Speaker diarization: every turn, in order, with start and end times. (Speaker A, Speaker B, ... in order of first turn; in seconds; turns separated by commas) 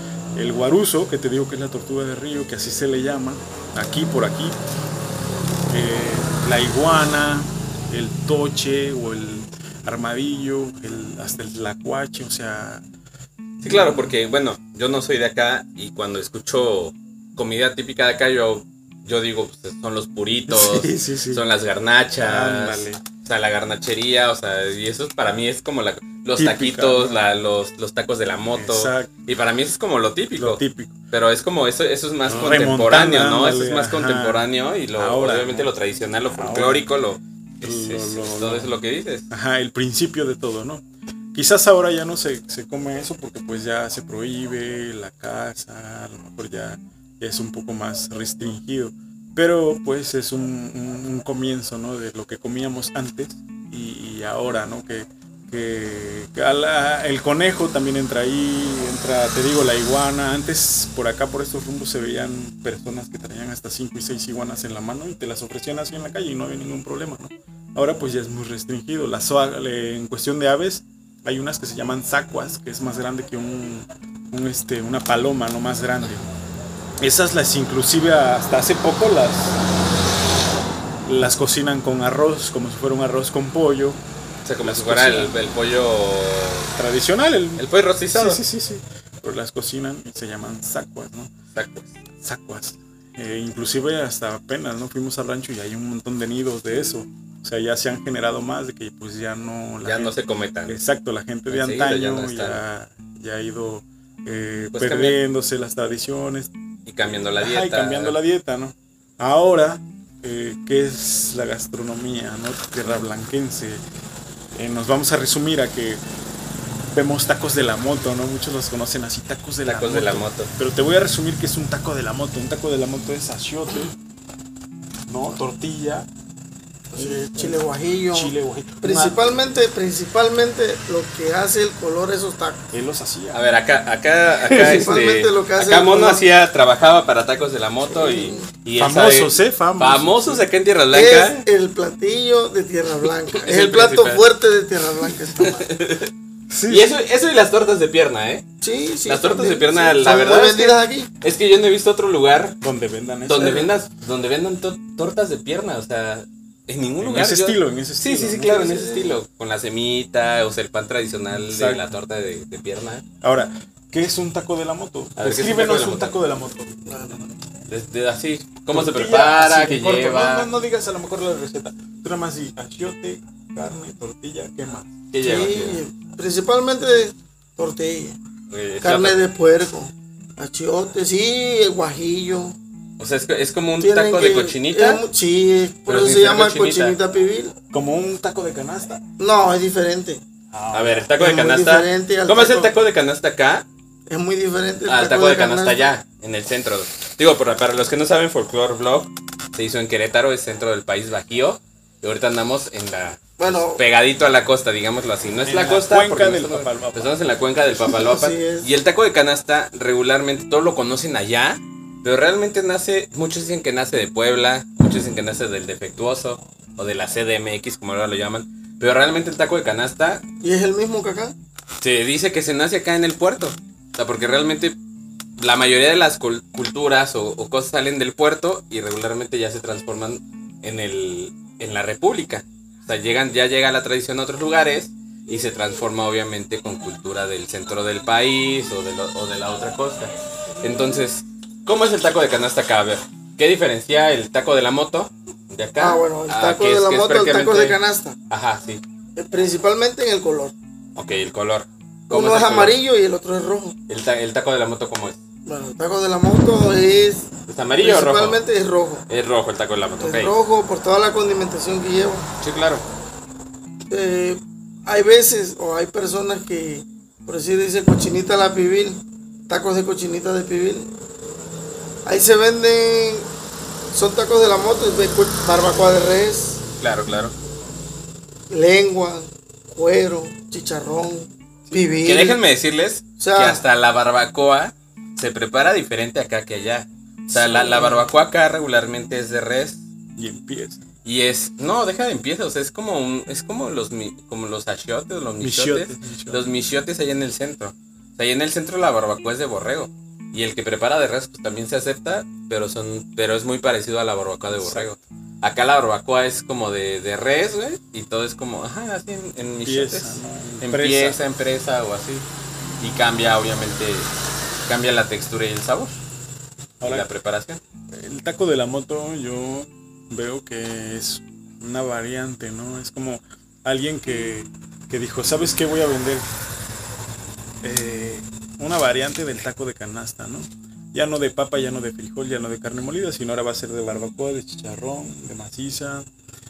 Speaker A: 0.3-4.5, Speaker A: 5.7-12.8, Speaker B: 13.6-39.3, Speaker A: 13.6-14.1, Speaker A: 20.5-21.4, Speaker A: 22.2-23.0, Speaker A: 26.4-27.2, Speaker A: 28.5-29.1, Speaker A: 30.4-31.0, Speaker A: 32.2-35.7, Speaker A: 36.3-36.8, Speaker A: 37.6-38.7, Speaker A: 39.3-76.3, Speaker A: 77.0-79.6, Speaker A: 81.0-84.0, Speaker B: 84.4-86.7, Speaker A: 84.6-85.3, Speaker A: 86.8-91.3, Speaker B: 87.6-88.4, Speaker B: 91.5-91.9, Speaker A: 92.2-106.5, Speaker B: 99.8-100.8, Speaker B: 101.5-102.6, Speaker B: 104.7-105.2, Speaker B: 106.8-108.2, Speaker A: 107.4-113.8, Speaker A: 114.5-116.0, Speaker A: 116.9-123.9, Speaker B: 119.7-120.5, Speaker A: 125.1-126.1, Speaker A: 126.9-127.6, Speaker C: 126.9-132.6, Speaker A: 128.1-129.4, Speaker A: 132.7-133.4, Speaker B: 133.3-141.4, Speaker C: 134.5-136.2, Speaker C: 137.9-138.5, Speaker A: 138.8-140.5, Speaker C: 140.9-145.6, Speaker B: 143.3-144.3, Speaker B: 145.3-146.1, Speaker A: 146.5-146.9, Speaker B: 146.7-148.4, Speaker C: 148.6-151.1, Speaker B: 149.1-152.6, Speaker A: 152.6-153.7, Speaker B: 153.3-163.0, Speaker A: 157.0-158.7, Speaker C: 158.4-159.2, Speaker A: 161.3-161.9, Speaker A: 163.2-166.8, Speaker B: 165.2-166.2, Speaker C: 166.8-167.3, Speaker B: 167.7-170.5, Speaker A: 168.7-174.9, Speaker B: 175.1-175.8, Speaker C: 175.2-178.2, Speaker B: 178.5-179.2, Speaker C: 178.8-182.6, Speaker B: 183.0-185.0, Speaker C: 183.8-187.5, Speaker B: 185.9-187.0, Speaker A: 187.7-189.0, Speaker C: 189.2-190.2, Speaker A: 190.5-191.1, Speaker B: 190.7-193.7, Speaker C: 191.2-192.7, Speaker C: 194.1-195.9, Speaker B: 194.9-220.2, Speaker C: 203.4-203.8, Speaker A: 205.4-207.2, Speaker C: 207.8-208.7, Speaker C: 220.4-221.3, Speaker B: 221.8-224.8, Speaker B: 225.4-247.8, Speaker C: 245.8-248.2, Speaker B: 248.3-248.8, Speaker C: 249.2-250.5, Speaker B: 250.9-252.8, Speaker C: 252.1-253.8, Speaker B: 253.9-255.2, Speaker C: 255.4-259.0, Speaker B: 257.5-258.4, Speaker B: 259.1-260.3, Speaker C: 260.0-262.3, Speaker B: 262.4-262.8, Speaker C: 263.9-270.9, Speaker C: 272.0-273.3, Speaker C: 273.9-276.6, Speaker B: 276.8-277.3, Speaker C: 278.5-282.4, Speaker B: 282.0-289.8, Speaker C: 283.2-283.6, Speaker C: 287.3-288.1, Speaker A: 290.2-290.8, Speaker B: 291.0-312.2, Speaker A: 295.4-296.4, Speaker A: 304.5-304.9, Speaker A: 309.6-311.2, Speaker B: 312.8-314.1, Speaker B: 314.7-316.0, Speaker A: 316.8-317.1, Speaker B: 316.8-317.6, Speaker A: 317.9-326.2, Speaker A: 327.6-336.1